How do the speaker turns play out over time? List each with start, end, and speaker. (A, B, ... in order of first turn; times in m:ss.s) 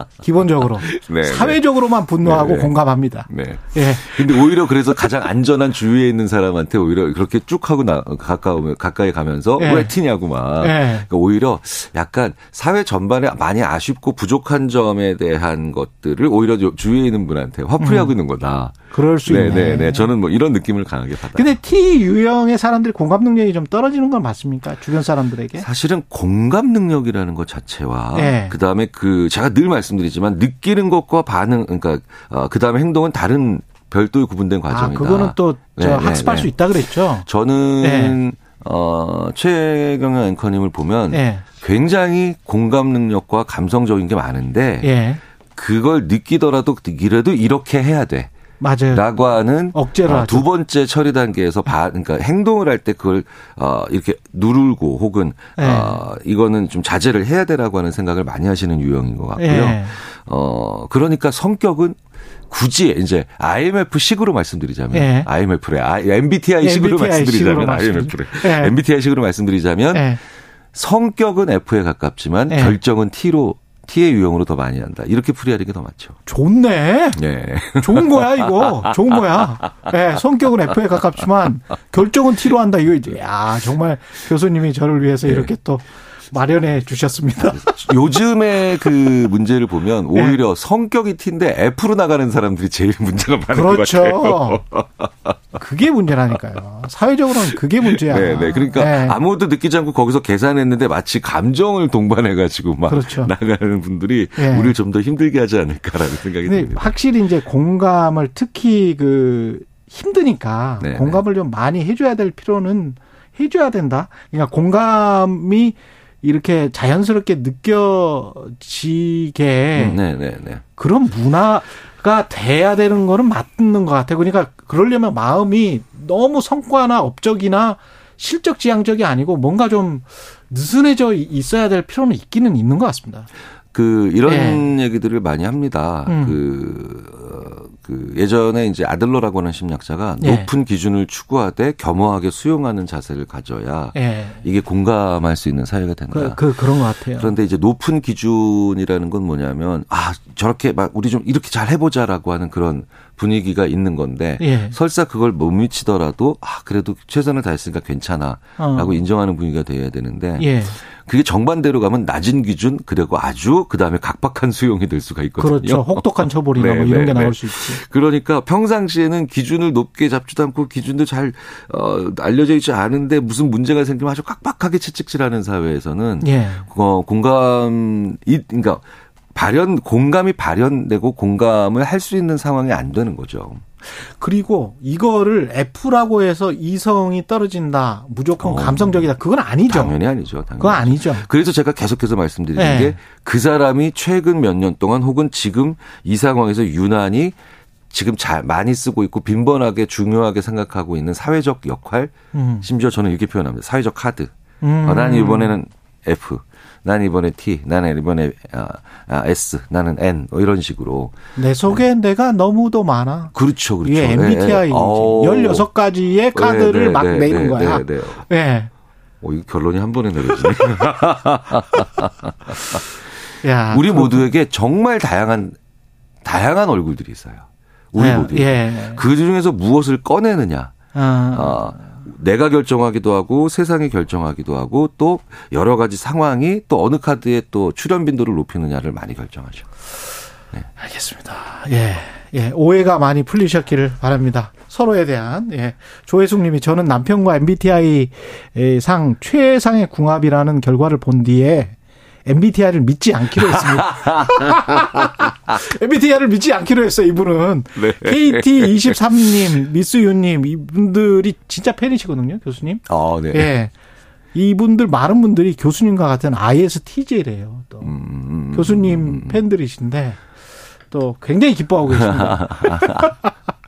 0:00.2-0:04.5 A
0:00.8-0:21.6 B
0:09.6-0:09.9 A
0:10.6-0:11.1 A
0:17.8-0:18.1 A
0:18.9-0:20.1 A
0:21.3-0:25.6 A
0:25.6-0:44.9 B
0:28.1-0:28.5 A
0:34.7-0:37.2 A
0:37.8-0:38.2 A
0:41.1-0:41.4 A
0:44.8-0:45.2 A
0:45.6-0:48.3 B
0:48.6-0:50.4 A
0:48.9-1:02.0 B
0:55.6-0:56.0 A
0:59.4-1:00.0 A
1:02.5-1:10.2 B
1:04.9-1:05.3 A
1:06.6-1:08.8 A
1:09.9-1:10.2 A
1:10.7-1:16.2 B
1:12.5-1:12.8 A
1:16.2-1:17.2 A
1:17.2-1:18.9 B
1:17.8-1:28.0 A
1:25.2-1:25.5 B
1:27.5-1:35.3 B
1:33.5-1:34.6 A
1:35.5-1:39.2 A
1:37.5-1:46.9 B
1:42.9-1:43.3 A
1:44.4-1:44.7 A
1:46.4-2:00.0 A
1:50.8-1:51.2 B
1:59.7-2:00.6 B
2:00.8-2:13.3 A
2:13.7-2:58.8 B
2:14.2-2:14.7 A
2:16.0-2:16.4 A
2:20.2-2:20.5 A
2:23.9-2:24.4 A
2:26.1-2:27.4 A
2:34.4-2:34.8 A
2:38.6-2:39.0 A
2:40.4-2:40.8 A
2:45.4-2:47.8 A
2:56.2-2:56.7 A
2:59.3-3:03.6 B
3:03.9-3:10.0 A
3:08.4-3:09.1 B
3:09.7-3:17.4 B
3:10.6-3:11.3 A
3:12.6-3:13.0 A
3:17.9-3:24.3 B
3:22.3-3:22.7 A
3:24.6-3:25.6 A
3:24.8-3:31.1 B
3:31.4-3:33.3 A
3:33.3-3:35.6 B
3:33.8-3:38.7 A
3:36.3-3:38.3 B
3:39.2-3:42.9 B
3:43.4-3:44.3 A
3:43.7-3:45.6 B
3:46.2-3:50.7 B
3:48.0-3:49.0 A
3:50.9-3:51.7 A
3:51.3-3:59.7 B
4:00.8-4:23.7 A
4:13.3-4:15.3 B
4:17.8-4:19.6 B
4:22.9-4:23.5 B
4:24.3-4:27.9 A
4:27.8-4:29.4 B
4:28.5-4:30.2 A
4:30.9-4:33.3 A
4:31.9-4:33.2 B